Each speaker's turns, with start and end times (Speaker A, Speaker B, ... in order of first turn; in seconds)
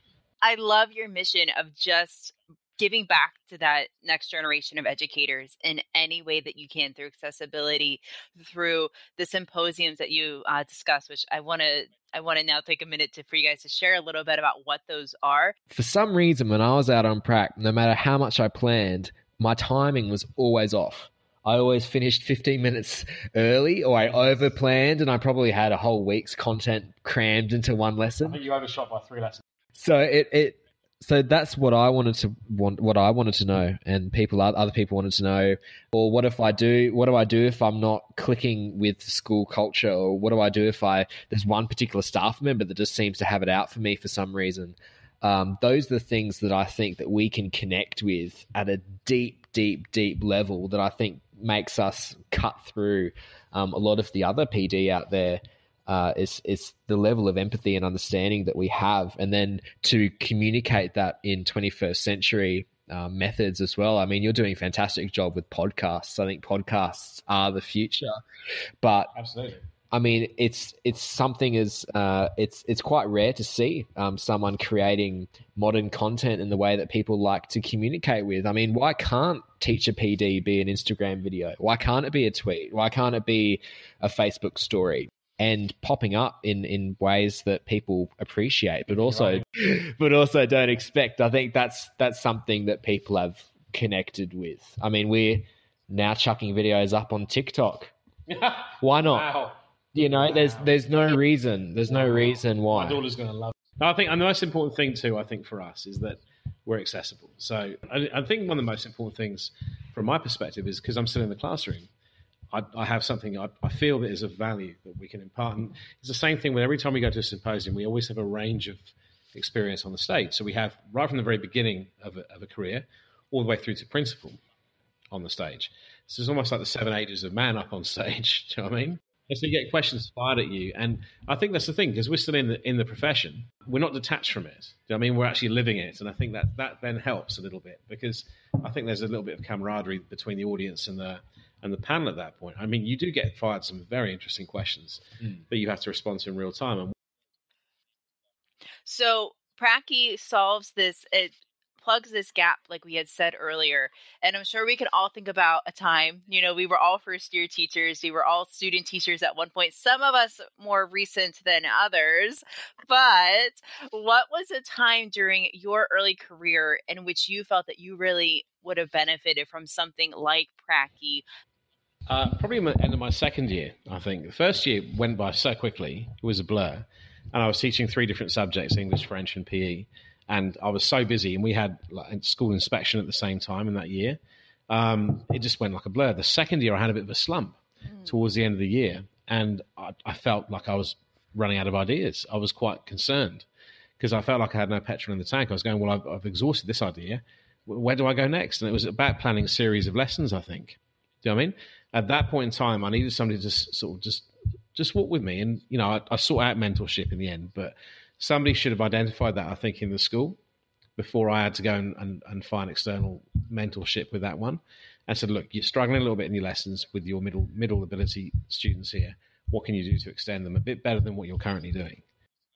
Speaker A: 0.4-15.5, 148.8-171.2
Speaker B: 15.7-28.4, 29.8-68.2, 68.8-69.1, 69.9-97.9, 98.8-99.3, 99.9-103.0
Speaker C: 28.2-29.4, 69.1-69.6, 88.9-89.4, 98.3-99.6, 100.2-100.8, 101.8-111.9, 112.5-124.4, 125.1-146.9, 172.1-184.2, 184.7-193.5, 194.0-210.4, 211.0-222.0